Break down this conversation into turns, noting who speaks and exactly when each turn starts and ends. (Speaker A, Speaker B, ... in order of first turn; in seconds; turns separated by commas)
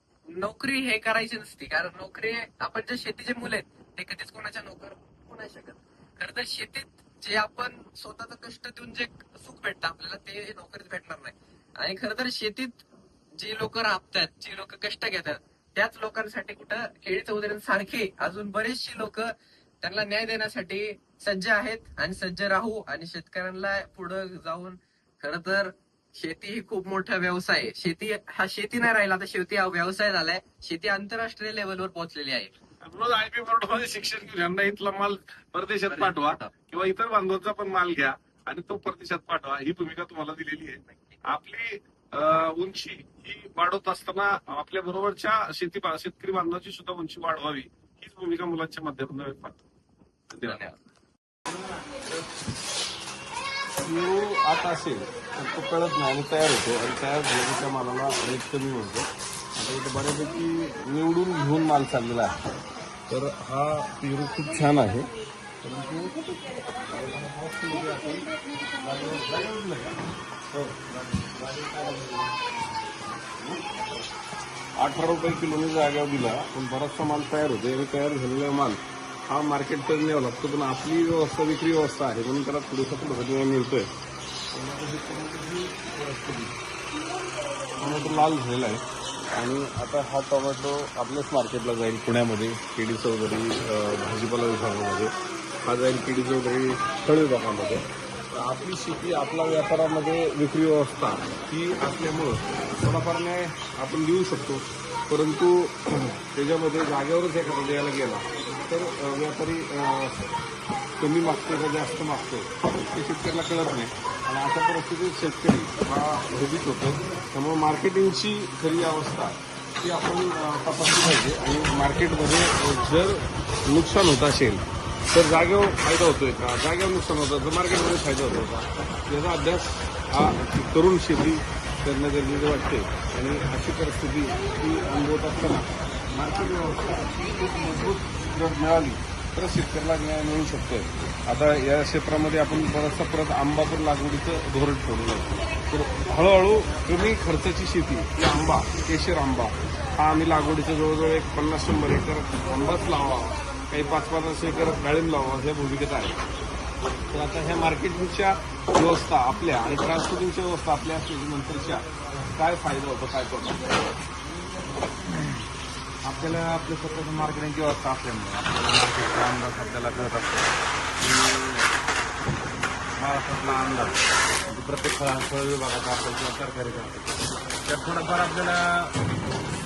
Speaker A: 0.3-12.8, Speaker A: 13.4-32.6, Speaker B: 32.8-49.6, Speaker A: 35.9-36.5, Speaker B: 50.3-50.7, Speaker A: 50.4-50.7, Speaker B: 53.8-62.4, Speaker B: 63.1-65.1, Speaker B: 65.6-70.0, Speaker B: 70.5-72.5, Speaker B: 73.3-74.0, Speaker B: 74.8-83.9, Speaker B: 84.5-86.6, Speaker B: 87.7-110.2, Speaker B: 111.0-156.2, Speaker B: 157.1-163.8, Speaker C: 165.1-165.4, Speaker C: 166.0-171.7, Speaker C: 173.0-174.0, Speaker C: 174.5-177.1, Speaker C: 177.6-179.0